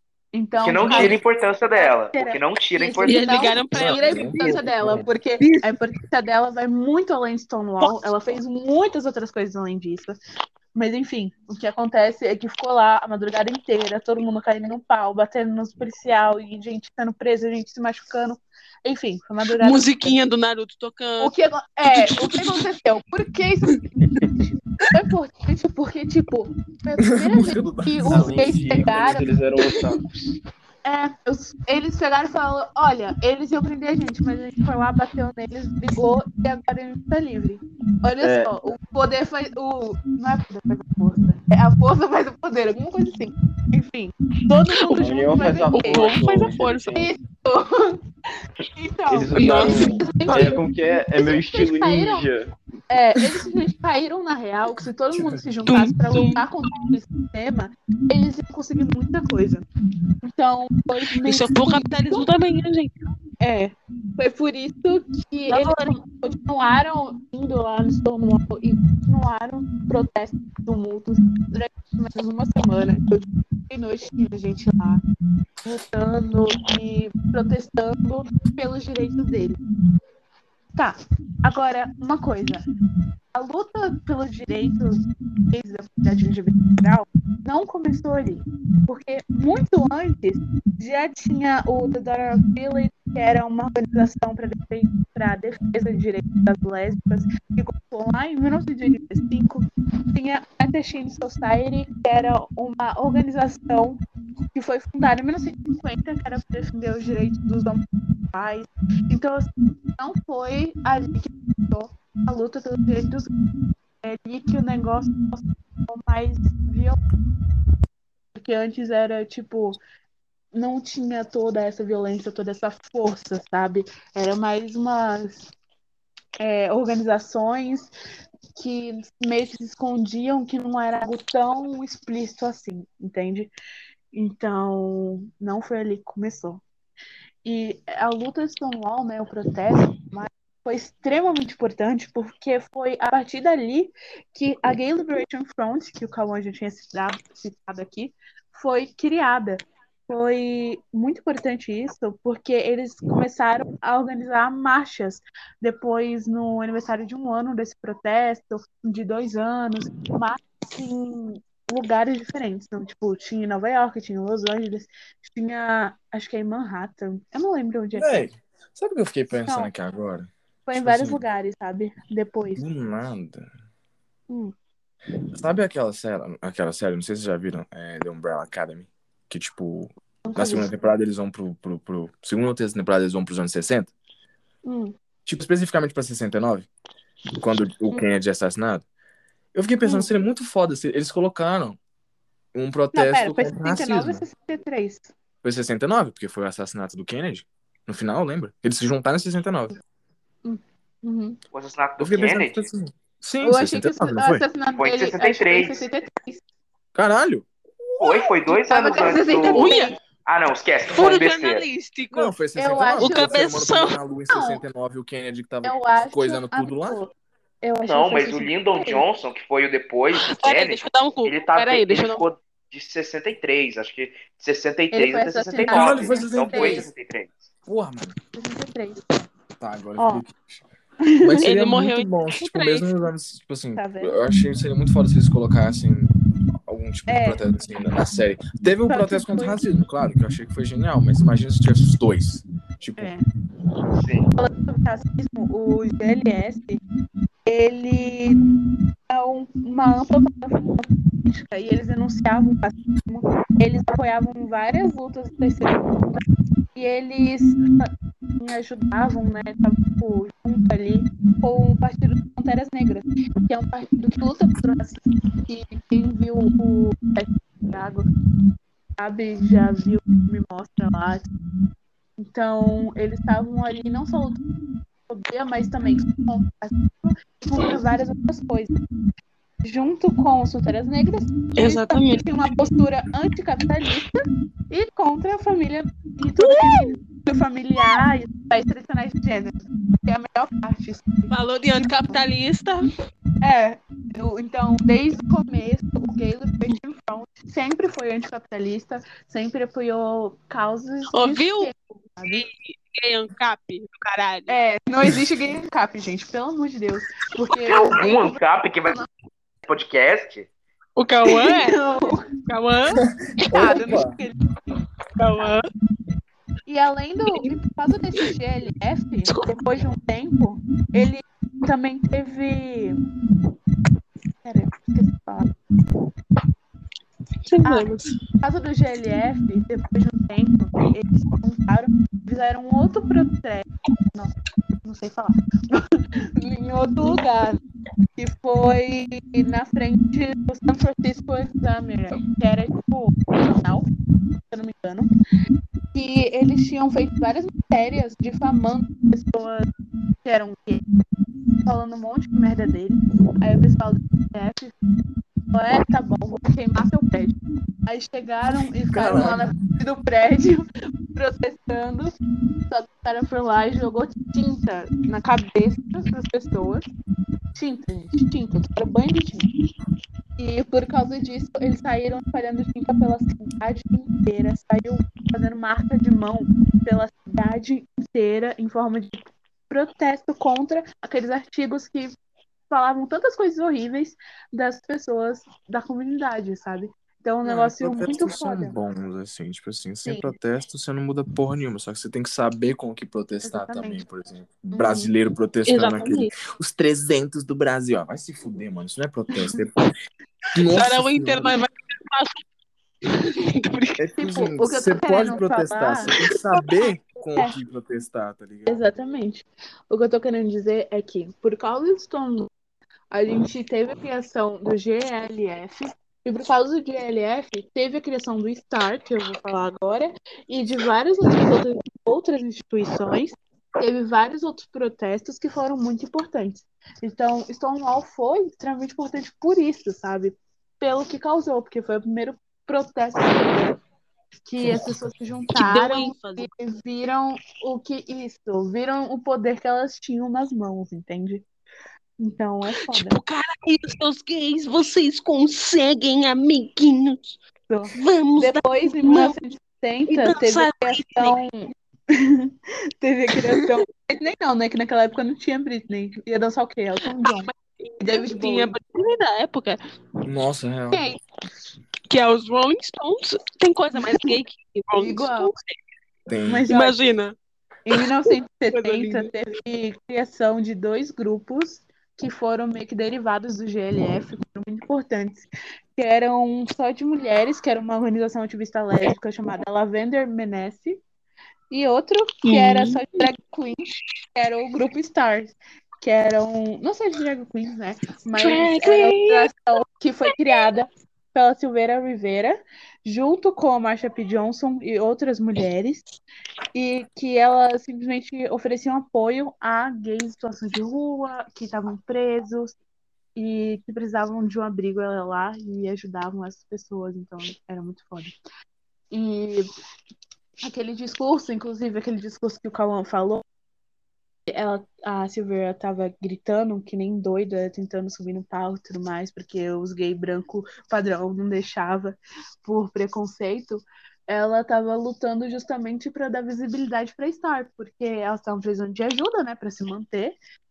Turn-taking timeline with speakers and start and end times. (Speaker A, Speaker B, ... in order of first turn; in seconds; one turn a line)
Speaker A: 0.3-10.2
Speaker B: 0.6-3.4
Speaker C: 3.0-4.7
Speaker D: 3.7-5.0
Speaker C: 5.4-5.7
Speaker C: 7.8-8.1
Speaker A: 10.7-20.2
Speaker C: 19.6-21.3
Speaker A: 21.2-29.8
Speaker C: 21.9-22.6
Speaker D: 27.0-28.6
Speaker E: 28.1-30.0
Speaker A: 30.8-46.2
Speaker E: 38.2-38.6
Speaker E: 44.9-47.1
Speaker C: 45.7-47.1
Speaker A: 47.0-48.0
Speaker A: 48.8-52.3
Speaker E: 49.1-52.5
Speaker C: 49.4-49.7
Speaker A: 52.9-59.6
Speaker D: 55.1-55.4
Speaker C: 55.6-56.9
Speaker A: 60.2-62.3
Speaker C: 61.2-63.1
Speaker A: 63.4-75.0
Speaker C: 65.5-66.0
Speaker A: 75.6-79.6
Speaker A: 80.8-82.7
Speaker A: 83.3-104.0
Speaker A: 104.5-113.3
Speaker A: 114.0-117.0
Speaker A: 118.3-119.8
Speaker A: 120.5-125.5
Speaker A: 126.4-127.9
Speaker A: 128.5-133.5
Speaker A: 134.1-136.6
Speaker A: 137.4-168.1
Speaker D: 167.9-171.2
Speaker A: 170.7-172.6
Speaker D: 172.6-173.5
Speaker D: 175.3-183.9
Speaker A: 180.2-180.7
Speaker A: 184.6-184.9
Speaker D: 185.2-186.7
Speaker D: 187.4-188.8
Speaker D: 189.5-191.8
Speaker A: 189.8-190.1
Speaker D: 192.5-194.2
Speaker A: 192.9-195.1
Speaker D: 195.4-199.7
Speaker A: 200.4-201.4
Speaker B: 201.5-202.7
Speaker D: 202.0-204.4
Speaker A: 203.4-206.4
Speaker B: 204.8-205.8
Speaker D: 206.9-207.5
Speaker B: 208.0-211.7
Speaker A: 208.5-210.0
Speaker C: 209.5-209.9
Speaker C: 210.9-212.3
Speaker D: 212.1-217.0
Speaker A: 212.6-213.3
Speaker C: 213.0-214.0
Speaker A: 214.3-214.6
Speaker A: 215.6-217.1
Speaker A: 217.6-219.0
Speaker B: 217.8-227.5
Speaker C: 220.3-222.2
Speaker A: 224.9-226.9
Speaker D: 225.7-226.9
Speaker D: 227.7-228.2
Speaker A: 228.4-229.3
Speaker D: 229.6-230.6
Speaker A: 230.0-230.2
Speaker A: 231.0-231.5
Speaker D: 231.2-236.1
Speaker C: 231.4-232.9
Speaker A: 233.8-234.1
Speaker D: 236.7-243.1
Speaker A: 237.1-237.4
Speaker A: 238.9-239.6
Speaker A: 243.0-243.2
Speaker B: 244.0-244.3
Speaker A: 244.3-246.8
Speaker A: 247.4-248.4
Speaker A: 249.1-268.1
Speaker A: 269.0-271.2
Speaker A: 272.2-274.4
Speaker A: 275.1-278.8
Speaker A: 279.6-292.2
Speaker C: 281.6-282.2
Speaker C: 286.4-286.9
Speaker C: 291.3-292.9
Speaker A: 293.4-302.4
Speaker C: 301.1-301.7
Speaker C: 302.2-304.6
Speaker A: 304.5-309.1
Speaker B: 307.6-309.0
Speaker B: 309.7-310.5
Speaker C: 311.0-311.8
Speaker A: 311.3-312.3
Speaker C: 312.4-313.9
Speaker D: 313.0-314.1
Speaker A: 313.5-314.8
Speaker C: 315.2-315.7
Speaker A: 316.6-323.0
Speaker C: 319.3-319.6
Speaker A: 324.4-325.5
Speaker C: 327.4-328.2
Speaker A: 327.6-337.6
Speaker A: 338.2-343.9
Speaker A: 344.5-345.1
Speaker A: 345.9-349.7
Speaker A: 350.2-350.8
Speaker A: 351.6-354.8
Speaker A: 355.5-362.1
Speaker D: 358.9-359.4
Speaker A: 362.7-366.9
Speaker A: 367.5-369.5
Speaker A: 370.4-382.1
Speaker A: 382.7-388.7
Speaker D: 387.4-399.8
Speaker A: 390.1-390.3
Speaker A: 393.4-394.0
Speaker A: 394.7-395.1
Speaker C: 395.7-396.3
Speaker D: 400.5-401.6
Speaker C: 400.7-402.4
Speaker C: 403.1-404.0
Speaker D: 404.0-408.8
Speaker A: 404.2-406.1
Speaker A: 408.7-412.5
Speaker A: 413.1-433.8
Speaker A: 434.4-441.4
Speaker D: 434.6-435.0
Speaker C: 435.6-436.5
Speaker A: 442.2-443.2
Speaker C: 442.9-447.2
Speaker A: 447.7-458.7
Speaker C: 447.9-449.4
Speaker C: 450.1-451.4
Speaker C: 457.2-459.8
Speaker D: 460.2-461.0
Speaker A: 460.9-461.2
Speaker C: 462.1-465.7
Speaker A: 464.9-465.5
Speaker D: 466.3-466.7
Speaker A: 466.4-467.1
Speaker C: 466.7-467.4
Speaker A: 467.9-475.4
Speaker C: 468.7-469.3
Speaker A: 475.9-481.0
Speaker A: 481.7-496.1
Speaker C: 482.4-483.3
Speaker C: 488.4-489.5
Speaker A: 496.7-502.7
Speaker A: 503.4-508.3
Speaker A: 509.1-509.7
Speaker A: 510.6-513.4
Speaker A: 514.5-530.4